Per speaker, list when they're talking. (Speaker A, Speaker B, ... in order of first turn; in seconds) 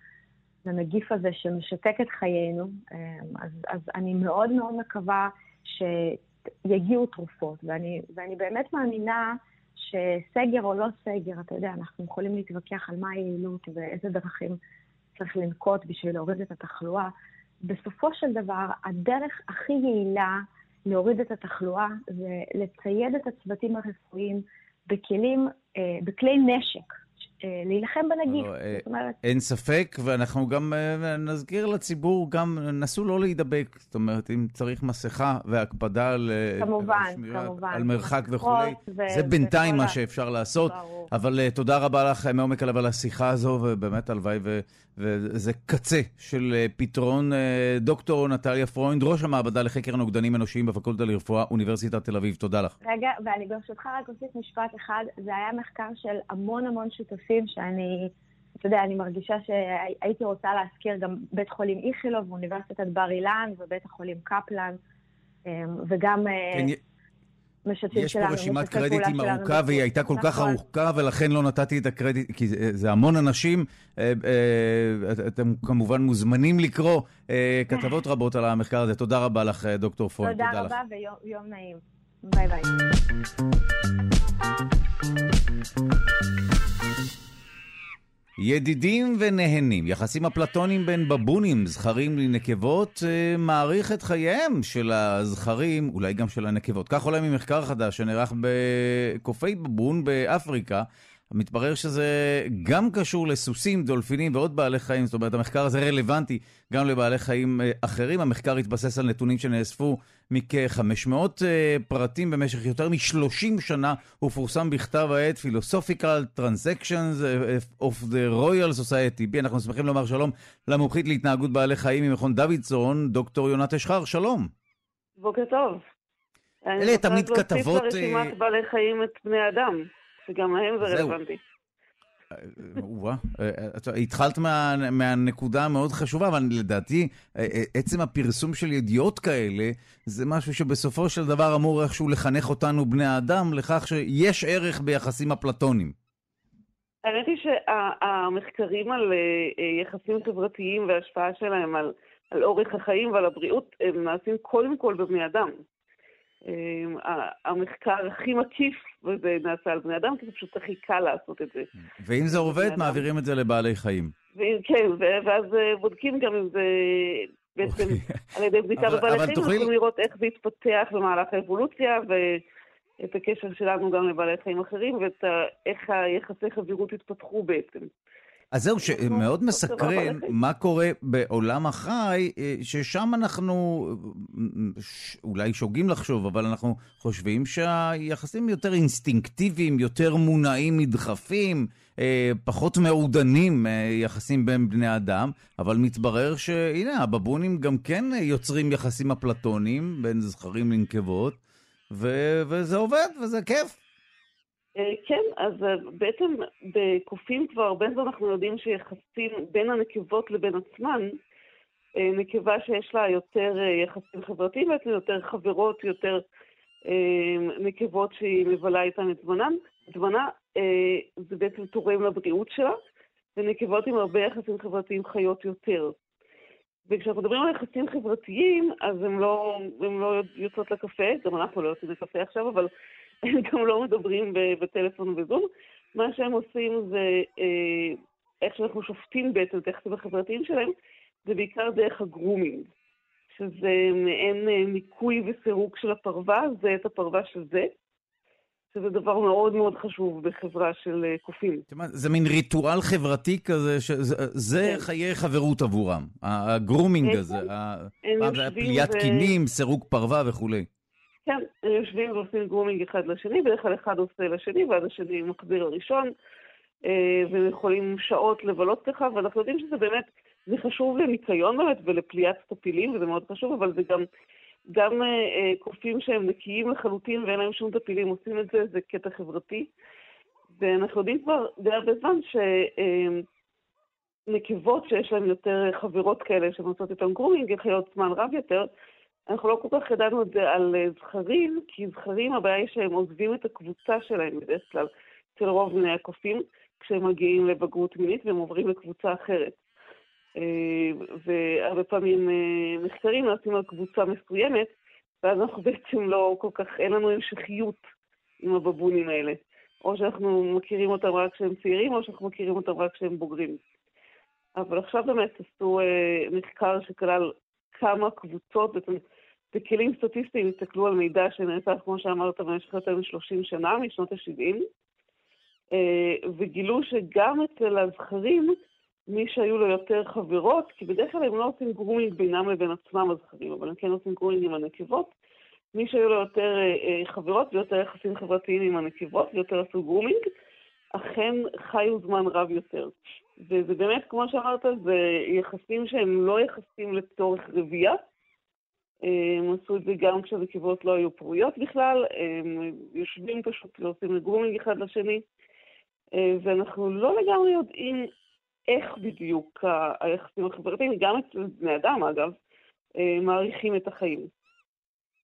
Speaker A: 0.7-14.6, 15.2-17.1, 17.6-26.9, 27.4-29.2, 36.6-40.0, 40.6-41.1, 52.8-64.8, 65.5-66.7, 67.7-70.6, 80.2-82.8
Speaker B: 28.3-52.8, 67.9-80.7, 88.4-124.5, 126.8-128.3, 130.8-131.2, 132.3-145.9, 162.0-164.1, 167.7-168.2, 168.8-169.7, 178.5-201.4, 201.9-203.8, 251.7-260.7
Speaker C: 125.2-125.8, 126.7-131.4, 147.1-155.5, 156.5-161.7, 162.2-163.1, 164.3-172.4, 173.0-177.9, 178.8-180.4, 204.8-211.1, 212.0-216.2, 216.9-222.8, 223.4-226.0, 226.9-232.7, 233.2-240.7, 241.3-242.7, 243.3-247.7, 248.7-251.6, 254.6-254.9, 257.0-257.5, 258.0-259.4, 261.3-266.1, 266.9-274.0, 274.7-279.7, 280.6-283.2, 284.3-288.7, 289.3-299.6, 300.4-304.7, 305.2-307.8, 308.4-313.6, 314.6-319.0, 319.5-324.6, 325.7-328.6, 329.1-335.1, 335.8-340.2, 340.9-348.0, 349.1-355.2, 356.2-358.1, 358.7-362.4, 363.0-364.3